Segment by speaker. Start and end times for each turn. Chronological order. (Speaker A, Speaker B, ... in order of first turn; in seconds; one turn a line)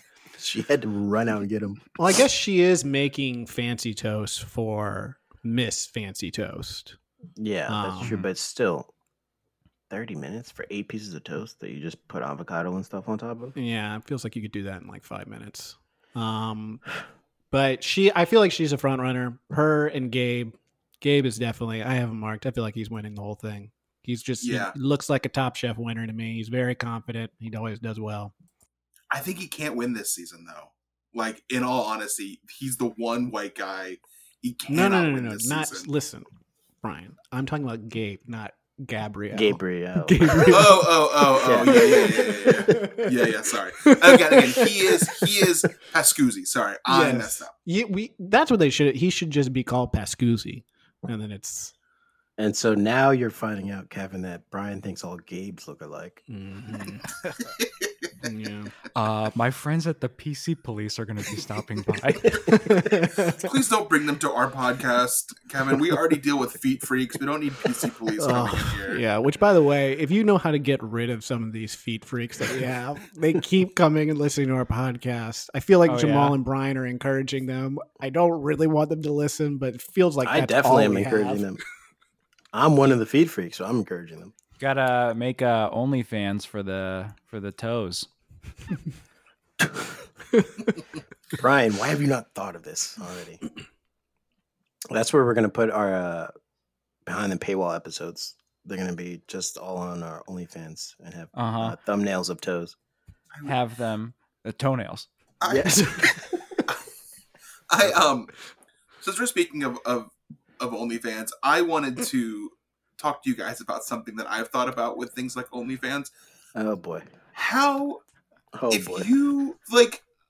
Speaker A: 0.4-1.9
Speaker B: 2.0-7.0
Speaker A: 7.4-8.9
Speaker B: 7.7-8.2
Speaker A: 9.9-13.5
Speaker B: 13.5-17.0
Speaker B: 17.5-28.3
Speaker C: 24.4-24.7
Speaker C: 29.1-35.9
Speaker B: 34.7-36.3
Speaker B: 36.8-43.1
Speaker A: 39.3-40.7
Speaker C: 40.5-47.5
Speaker A: 41.4-42.0
Speaker B: 43.8-45.3
Speaker B: 46.9-51.7
Speaker A: 52.4-56.2
Speaker B: 56.3-57.2
Speaker B: 58.2-58.7
Speaker D: 58.9-62.4
Speaker B: 62.5-63.5
Speaker C: 63.4-69.0
Speaker B: 68.2-81.5
Speaker D: 75.8-76.4
Speaker A: 80.2-81.6
Speaker A: 82.5-84.3
Speaker D: 84.6-88.1
Speaker A: 89.6-89.9
Speaker A: 91.3-93.4
Speaker A: 94.9-96.3
Speaker A: 97.0-102.7
Speaker D: 101.3-101.8
Speaker D: 103.4-105.1
Speaker C: 105.4-105.8
Speaker A: 105.4-106.0
Speaker B: 105.6-106.2
Speaker C: 107.7-108.3
Speaker C: 109.0-116.1
Speaker A: 116.5-117.1
Speaker C: 117.3-118.0
Speaker A: 118.5-119.1
Speaker C: 118.7-120.0